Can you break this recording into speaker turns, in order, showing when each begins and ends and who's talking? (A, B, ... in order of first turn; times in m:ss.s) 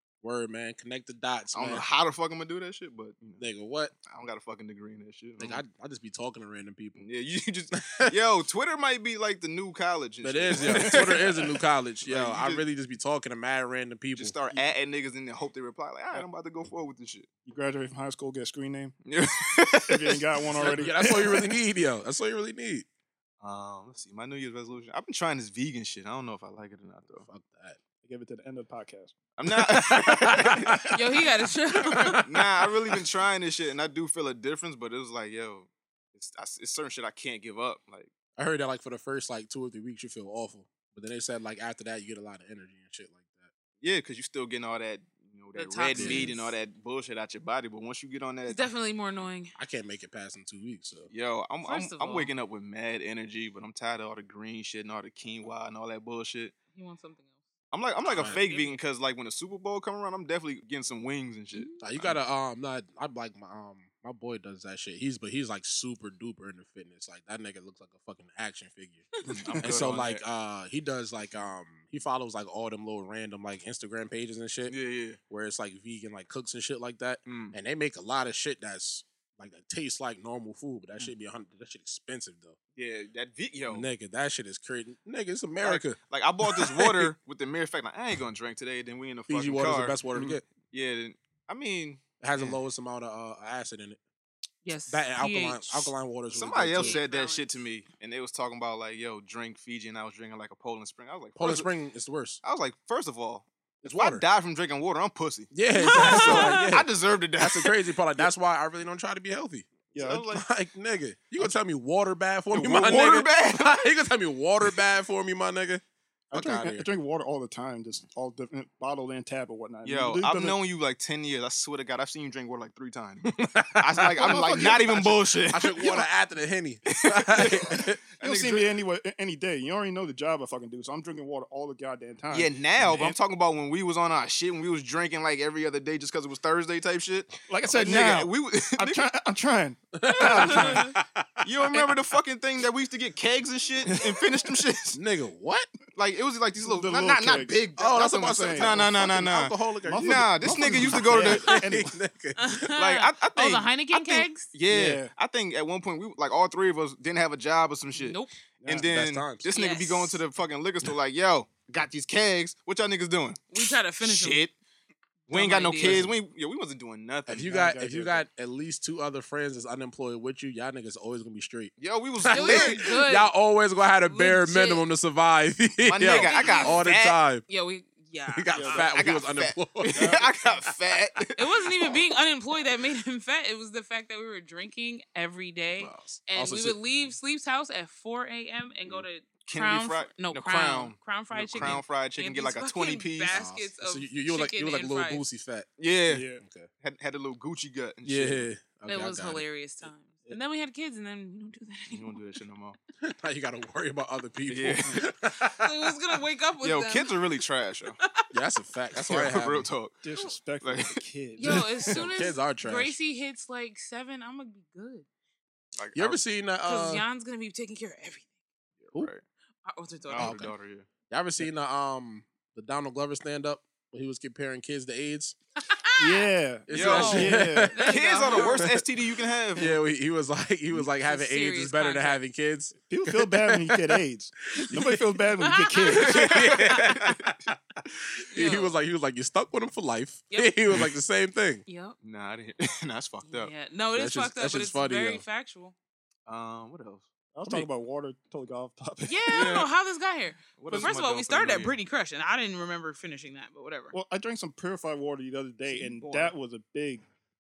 0:00.2-0:01.8 A
0:01.5-0:03.5 B
0:03.4-0:03.9 A
0:04.0-0:05.6 B
0:05.4-0:07.0 A
0:07.0-0:11.5 B
0:07.8-0:08.1 A
0:10.2-0:14.4 A
0:10.6-0:11.2 C
0:12.1-0:12.6 B
0:14.2-0:17.3 B
0:17.4-0:19.0 C
0:19.0-0:20.8 B
0:19.9-0:21.4 C
0:20.6-0:22.9 A
0:23.4-0:27.3 B
0:27.2-0:27.8 A
0:28.0-0:29.2 C
0:29.4-0:30.9 B
0:29.5-0:30.8 A
0:30.9-0:32.2 D
0:32.0-0:38.1 B
0:38.4-0:43.5 A
0:43.8-0:48.7 B
0:45.6-0:46.6 D
0:45.9-0:46.3 A
0:48.5-0:49.5 D
0:49.6-0:51.1 A
0:51.1-0:56.6 B
0:51.6-0:52.3 D
0:56.7-0:57.4 D
0:57.7-1:02.2 B
0:58.1-0:58.8 D
0:58.1-0:58.4 A
1:01.5-1:01.8 D
1:01.8-1:14.8 A
1:09.3-1:09.9 C
1:09.4-1:10.2 B
1:14.7-1:15.2 B
1:15.3-1:22.6 A
1:17.3-1:17.6 B
1:22.8-1:23.9 B
1:23.7-1:27.1 A
1:25.6-1:32.6 B
1:29.3-1:30.4 A
1:32.2-1:34.0 A
1:34.6-1:35.9 D
1:34.9-1:37.0 A
1:36.3-1:41.7 B
1:36.8-1:37.5 D
1:41.4-1:42.4 A
1:42.4-1:47.9 B
1:43.8-1:44.2 A
1:45.5-1:56.9 A
1:45.8-1:46.6 D
1:49.9-1:50.4 B
1:49.9-1:50.3 C
1:52.5-1:53.9 B
1:56.3-2:00.6 C
1:59.8-2:06.1 B
2:03.4-2:08.0 A
2:04.2-2:05.1 C
2:06.9-2:08.8 B
2:08.2-2:13.0 C
2:12.3-2:19.1 B
2:17.5-2:20.9 C
2:20.0-2:21.4 A
2:20.6-2:20.9 D
2:21.4-2:25.0 B
2:23.9-2:24.2 C
2:24.9-2:25.7 A
2:26.0-2:31.5 B
2:26.6-2:27.6 C
2:27.8-2:32.7 A
2:28.2-2:29.0 C
2:29.8-2:32.0 C
2:32.4-2:34.5 D
2:32.8-2:44.5 B
2:34.7-2:35.1 C
2:38.0-2:38.4 D
2:38.6-2:38.9 C
2:38.9-2:39.5 A
2:39.5-2:40.2 D
2:43.5-2:44.5 D
2:45.3-2:47.5 B
2:45.3-2:46.0 D
2:45.8-2:46.2 A
2:47.3-2:51.7 A
2:47.4-2:48.2 C
2:51.8-2:52.9 B
2:52.2-2:57.4 A
2:52.3-2:53.3 D
2:54.1-2:54.8 D
2:55.8-2:57.2 B
2:56.0-2:56.8 D
2:57.5-2:58.9 D
2:58.3-3:00.2 A
2:58.6-2:58.9 C
2:58.7-3:02.0 B
3:00.0-3:00.3 C
3:01.4-3:15.2 D
3:05.8-3:06.8 A
3:09.5-3:13.4 B
3:11.4-3:11.8 A
3:13.3-3:15.7 A
3:15.8-3:16.3 B
3:16.1-3:16.4 C
3:16.3-3:16.7 A
3:16.8-3:18.5 B
3:18.0-3:19.4 A
3:18.9-3:22.2 D
3:21.9-3:22.8 B
3:23.0-3:25.9 A
3:24.5-3:25.0 B
3:25.4-3:27.2 D
3:26.6-3:28.0 B
3:28.3-3:29.7 A
3:29.0-3:30.0 B
3:30.0-3:31.8 C
3:30.6-3:32.0 B
3:31.4-3:35.1 D
3:32.0-3:33.0 A
3:35.8-3:36.2 B
3:36.0-3:37.1 A
3:36.6-3:38.3 D
3:38.8-3:39.2 B
3:39.7-3:40.4 D
3:40.1-3:40.9 B
3:40.2-3:40.5 A
3:41.1-3:45.4 A
3:45.7-3:46.3 D
3:46.0-3:47.8 C
3:46.7-3:47.8 A
3:46.7-3:49.8 B
3:46.8-3:48.7 D
3:48.4-3:48.9 A
3:49.6-3:54.0 A
3:51.0-3:52.2 D
3:52.9-3:56.1 C
3:54.6-3:55.2 A
3:55.4-3:57.0 D
3:56.0-3:57.2 B
3:56.0-4:01.6 A
3:58.3-3:58.7 D
4:00.3-4:00.6 D
4:01.7-4:02.0 D
4:02.0-4:03.5 B
4:03.2-4:05.8 D
4:04.0-4:05.2 A
4:06.3-4:07.1 B
4:07.3-4:09.3 C
4:09.0-4:14.0 D
4:09.3-4:09.7 B
4:10.6-4:11.8 B
4:13.9-4:17.0 C
4:15.8-4:16.1 D
4:16.0-4:16.3 B